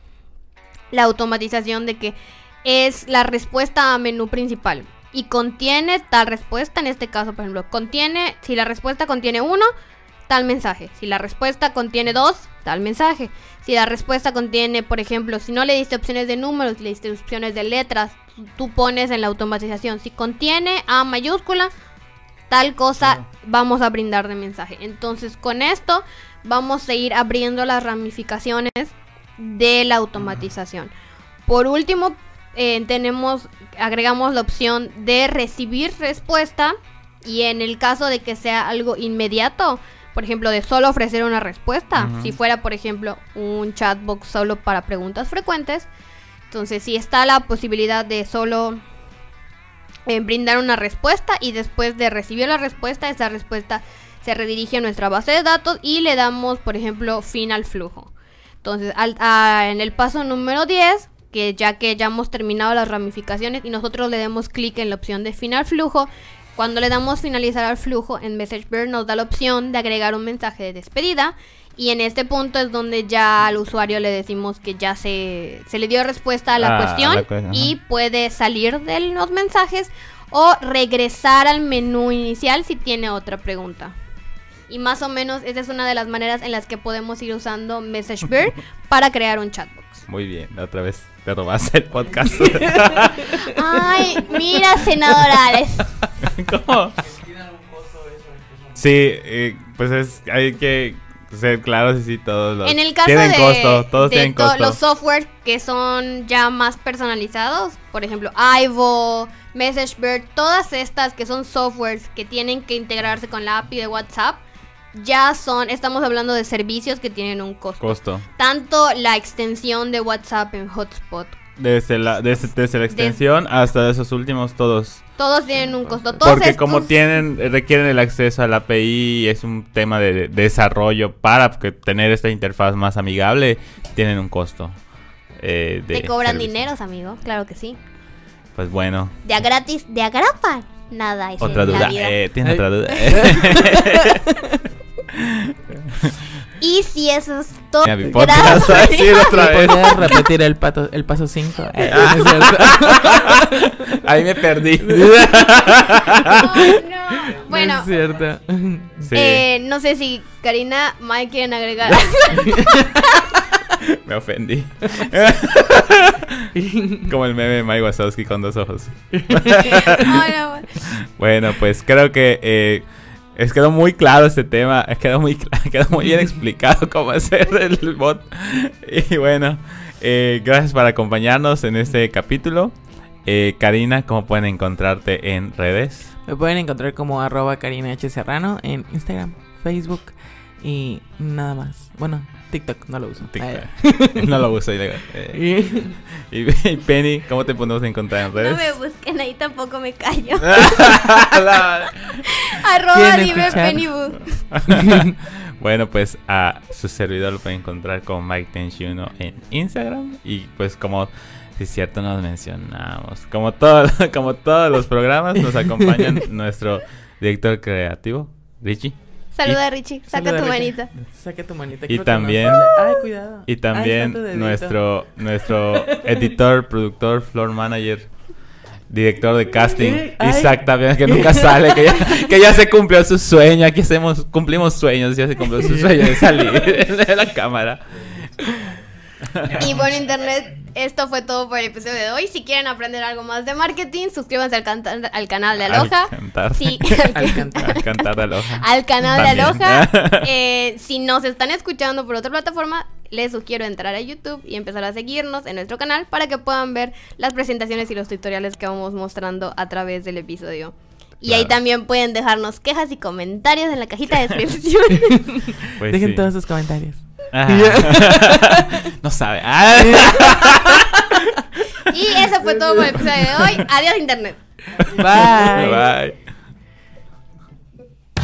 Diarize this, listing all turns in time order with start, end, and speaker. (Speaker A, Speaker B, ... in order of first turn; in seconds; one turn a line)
Speaker A: 0.9-9.7
Speaker A: 10.3-21.7
Speaker A: 22.5-30.9
Speaker A: 31.5-45.9
Speaker B: 41.9-42.3
Speaker A: 46.5-48.8
Speaker A: 50.0-58.1
Speaker A: 58.6-83.9
Speaker B: 76.6-77.7
Speaker A: 84.7-90.0
Speaker B: 90.1-93.6
Speaker A: 93.4-95.9
Speaker B: 96.2-97.0
Speaker B: 98.7-104.8
Speaker A: 102.6-114.4
Speaker A: 114.9-121.4
Speaker B: 117.8-118.2
Speaker B: 121.6-125.0
Speaker A: 122.9-123.2
Speaker A: 125.2-126.9
Speaker B: 126.2-134.8
Speaker B: 135.4-136.6
Speaker A: 135.9-137.8
Speaker B: 138.5-139.2
Speaker A: 139.2-142.2
Speaker B: 141.4-144.2
Speaker C: 142.4-144.6
Speaker B: 145.1-146.2
Speaker A: 146.6-150.2
Speaker B: 147.8-150.1
Speaker C: 148.0-153.7
Speaker B: 151.8-156.7
Speaker C: 154.8-159.1
Speaker A: 156.3-157.9
Speaker B: 159.1-159.4
Speaker A: 159.1-163.4
Speaker C: 162.4-162.8
Speaker B: 163.8-170.2
Speaker C: 166.6-167.1
Speaker C: 169.2-170.0
Speaker A: 169.9-170.8
Speaker B: 170.8-182.7
Speaker B: 183.2-186.1
Speaker C: 186.2-194.4
Speaker B: 193.3-198.7
Speaker C: 195.3-196.0
Speaker A: 198.3-201.2
Speaker B: 200.4-202.2
Speaker A: 202.4-204.4
Speaker C: 202.9-203.9
Speaker B: 204.5-219.6
Speaker C: 204.7-205.1
Speaker A: 219.3-220.9
Speaker C: 220.1-224.8
Speaker B: 221.9-222.7
Speaker B: 223.4-228.1
Speaker C: 225.4-226.3
Speaker B: 228.9-238.7
Speaker C: 229.8-232.1
Speaker A: 239.5-265.5
Speaker B: 245.7-250.3
Speaker C: 247.0-247.8
Speaker B: 261.3-261.5
Speaker C: 265.1-268.7
Speaker B: 265.8-266.3
Speaker B: 267.3-271.4
Speaker C: 269.8-270.8
Speaker A: 271.8-274.8
Speaker B: 273.0-273.4
Speaker B: 274.8-276.3
Speaker C: 275.0-275.9